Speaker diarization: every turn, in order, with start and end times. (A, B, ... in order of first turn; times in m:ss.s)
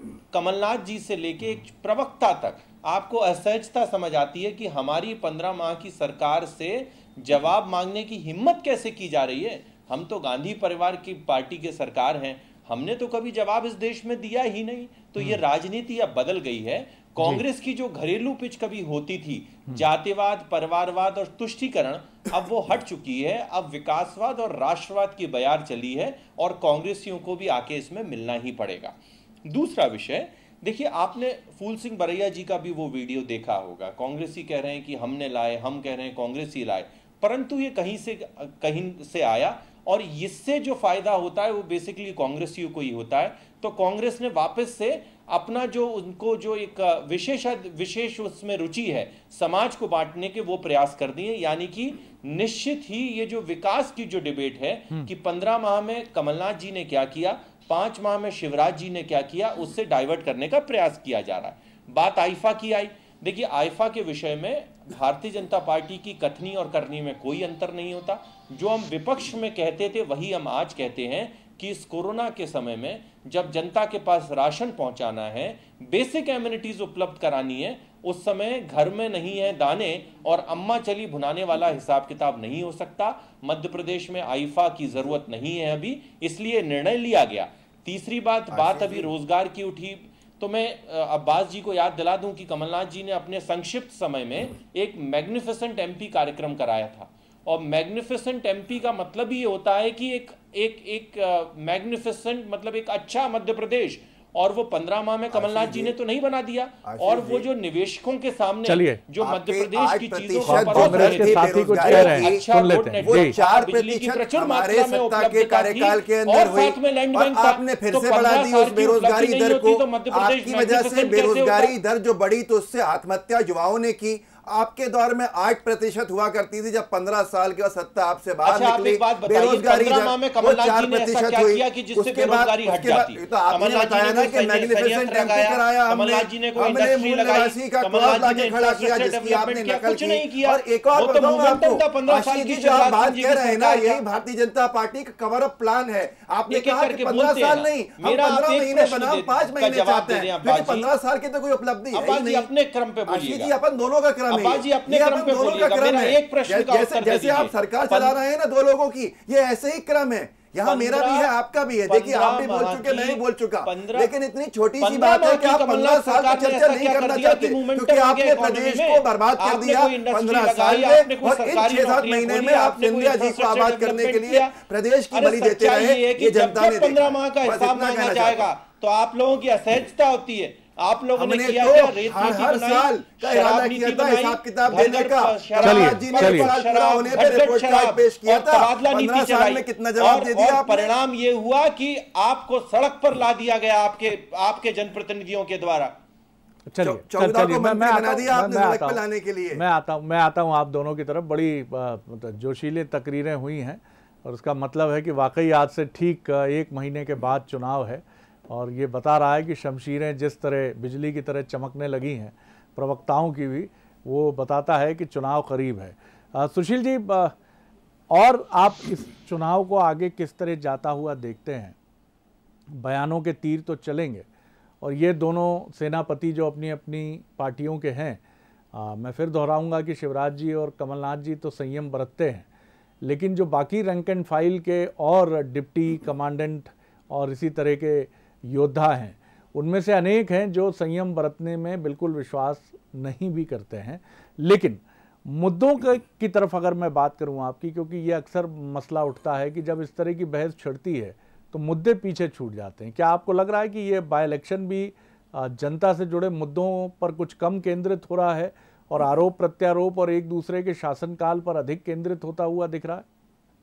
0:00.3-2:01.7 A
1:28.5-1:29.1 B
1:45.3-1:46.0 B
1:46.8-1:47.5 B
1:48.6-1:49.0 C
1:49.2-1:52.4 B
1:50.5-1:53.4 C
1:53.0-2:32.5 B
2:08.4-2:24.0 A
2:26.5-2:30.9 A
2:31.9-2:33.5 A
2:33.1-2:58.5 B
2:34.3-2:38.2 A
2:40.6-2:41.3 A
2:41.9-2:44.1 A
2:44.8-2:54.6 A
2:55.1-3:15.9 A
3:01.2-3:10.9 B
3:05.6-3:06.5 C
3:16.7-3:37.3 C
3:16.8-3:19.6 B
3:38.1-3:41.8 C
3:42.7-3:44.2 C
3:44.8-3:48.2 C
3:48.7-3:52.5 C
3:53.0-4:23.0 C